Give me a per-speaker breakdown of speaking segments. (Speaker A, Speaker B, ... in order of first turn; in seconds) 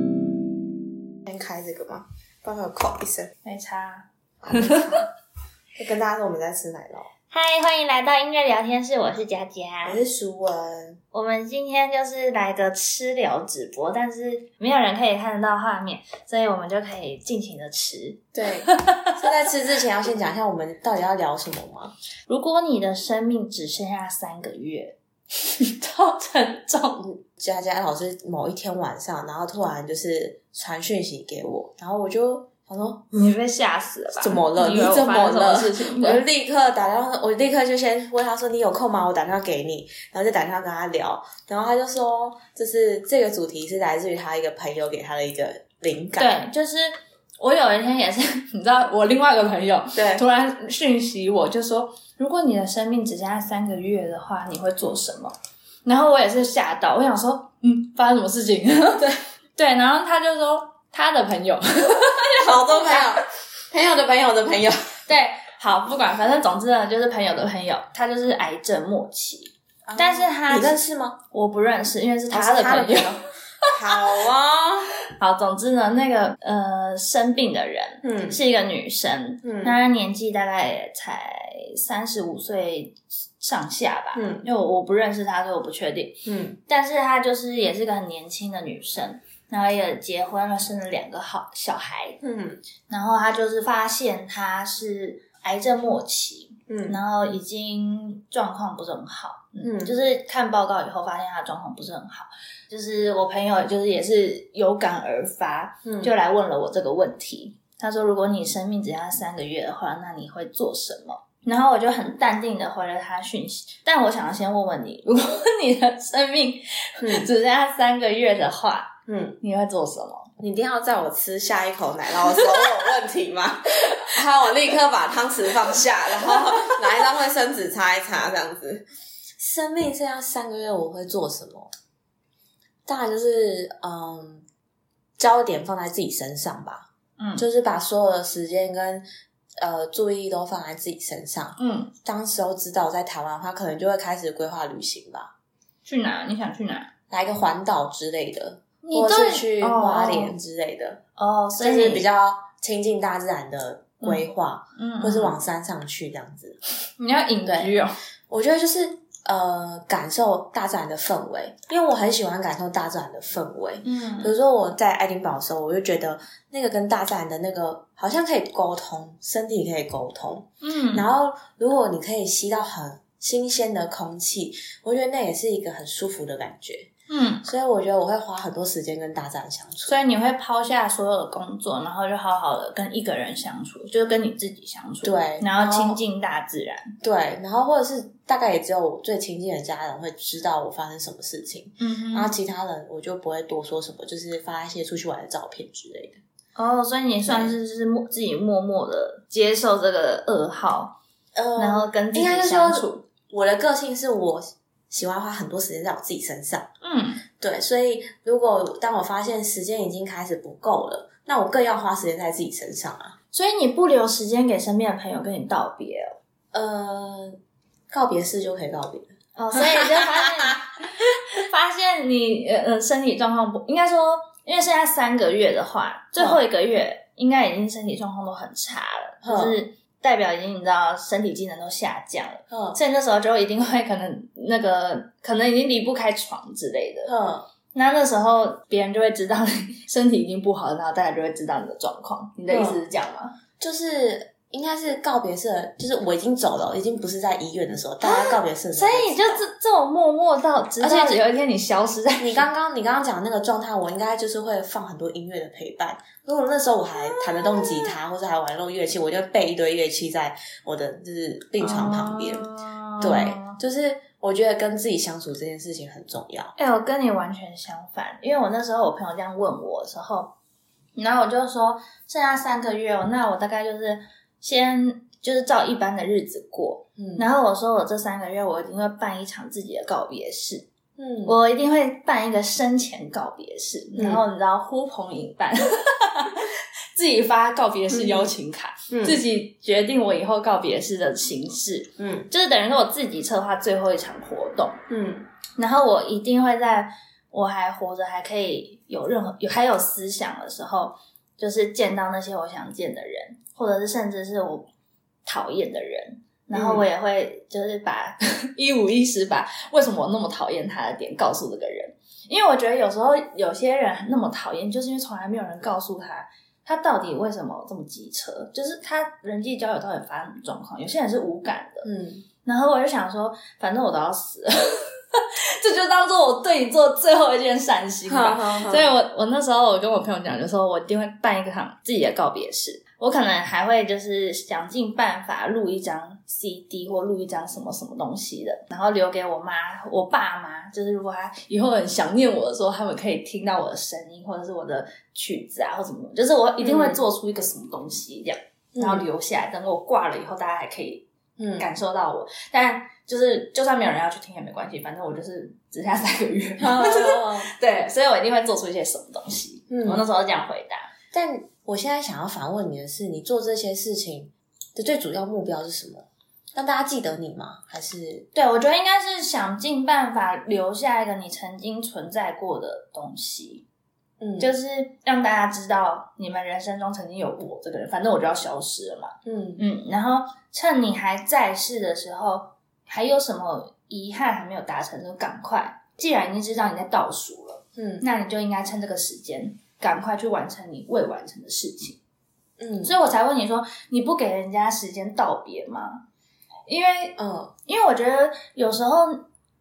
Speaker A: 1.2-3.3, 4.4-5.0, 5.8-7.1, 9.8-11.0, 18.3-21.9, 27.0-33.0, 34.2-46.3, 49.9-50.2, 62.4-64.8, 69.9-71.2, 72.3-74.9, 78.0-78.4, 79.4-79.7, 84.1-84.5, 86.2-86.6, 92.2-92.6, 96.7-97.0, 99.6-99.9, 105.8-106.1, 117.0-117.3, 119.1-119.4, 120.4-128.8, 129.4-131.7, 132.8-134.4, 135.2-139.1, 139.6-145.3, 147.1-151.0, 151.6-156.6, 157.4-157.7, 158.3-176.9, 177.4-179.9, 185.0-186.0, 187.0-196.2, 197.2-197.5, 201.3-206.7, 207.4-213.2, 216.5-217.4, 217.9-220.5, 229.2-229.6, 232.5-232.8, 237.0-237.5, 242.5-242.8, 243.6-249.4, 250.8-251.2, 252.2-262.5, 263.0-266.5, 277.0-277.2, 281.0-281.3, 284.0-284.2, 287.9-288.3, 288.9-289.2, 292.0-292.3, 294.9-295.3, 306.5-306.9, 321.8-322.2, 328.1-328.9, 346.6-347.0, 348.7-349.1, 351.4-351.7, 356.6-357.5, 359.7-360.0, 361.1-368.3, 374.2-374.5, 379.2-379.6, 387.8-388.0, 392.6-392.9, 397.2-397.5
Speaker B: 3.4-5.0, 7.3-10.0, 11.1-19.1, 22.3-27.1, 33.1-36.2, 46.2-55.3, 55.9-63.2, 65.1-70.8, 71.3-74.0, 75.2-92.2, 92.9-120.3, 126.3-126.7, 137.2-137.4, 141.6-141.9, 145.8-146.9, 148.8-150.3, 151.2-152.0, 154.0-155.4, 157.0-157.9, 163.8-164.3, 170.6-171.1, 177.1-177.5, 179.8-186.9, 191.8-192.3, 196.6-200.9, 201.6-203.0, 206.8-207.2, 213.3-216.2, 219.3-237.1, 237.7-243.3, 248.0-252.5, 257.1-257.9, 261.6-263.6, 266.6-270.3, 270.9-280.7, 281.2-294.8, 295.6-304.7, 305.2-321.9, 322.4-351.0, 351.6-360.9, 368.3-373.6, 374.4-392.0, 392.8-396.0, 396.7-399.2